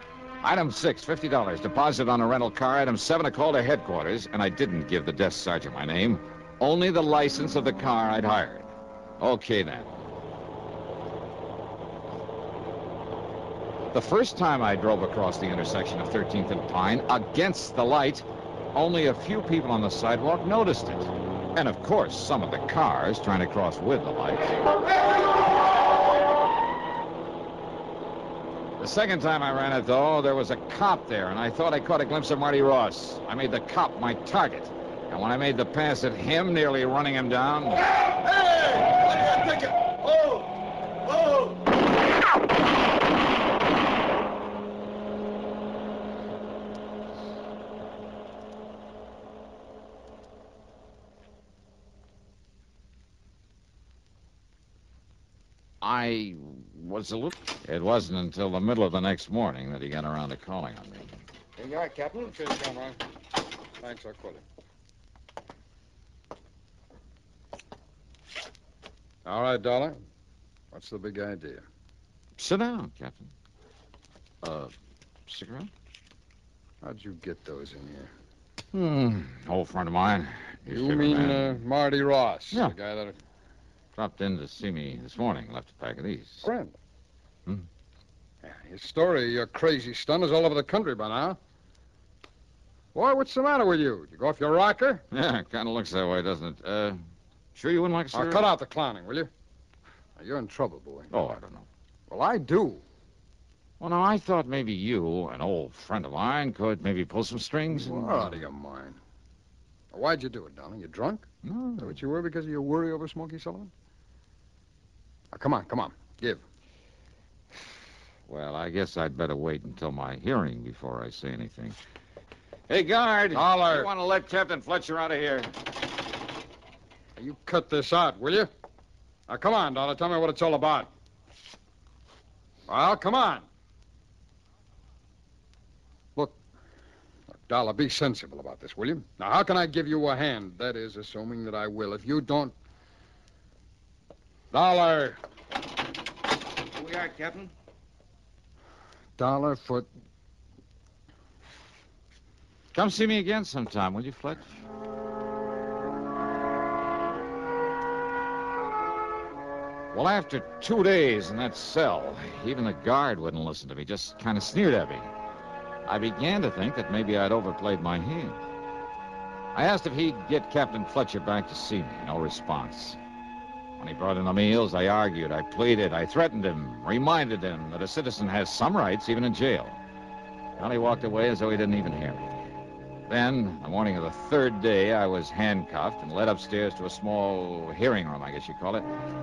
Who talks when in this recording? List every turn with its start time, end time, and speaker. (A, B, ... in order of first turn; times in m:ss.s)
0:00.4-0:10.0 A
0:13.9-0:24.7 A
0:28.8-0:37.9 A
0:55.8-1:01.1 A
1:01.6-1:03.0 B
1:03.8-1:04.4 B
1:09.2-1:10.0 B
1:10.7-1:11.6 B
1:12.4-1:13.3 A
1:14.4-1:14.7 A
1:15.3-1:15.7 A
1:16.8-1:18.1 B
1:18.7-1:21.6 A
1:20.7-1:23.2 B
1:24.0-1:26.5 A
1:26.4-1:26.7 B
1:28.4-1:31.4 B
1:33.0-1:35.0 B
1:35.1-1:37.0 A
1:37.6-1:38.5 A
1:38.1-1:39.3 B
1:40.2-1:41.1 B
1:41.1-1:41.7 A
1:42.1-1:42.8 B
1:43.8-1:48.4 A
1:47.7-1:49.0 B
1:49.9-1:51.2 B
1:51.4-1:52.0 A
1:51.8-1:53.7 B
1:55.3-1:56.4 B
1:58.3-2:01.8 A
2:02.7-2:05.5 A
2:03.3-2:03.9 B
2:07.2-2:08.5 B
2:09.3-2:10.9 B
2:12.7-2:13.4 B
2:17.4-2:22.5 B
2:24.5-2:25.2 B
2:29.2-2:29.9 B
2:32.7-2:34.6 A
2:39.9-2:45.1 A
2:45.9-2:48.4 A
2:49.5-2:53.0 A
2:53.8-2:59.8 A
3:00.6-3:02.4 A
3:03.1-3:08.9 A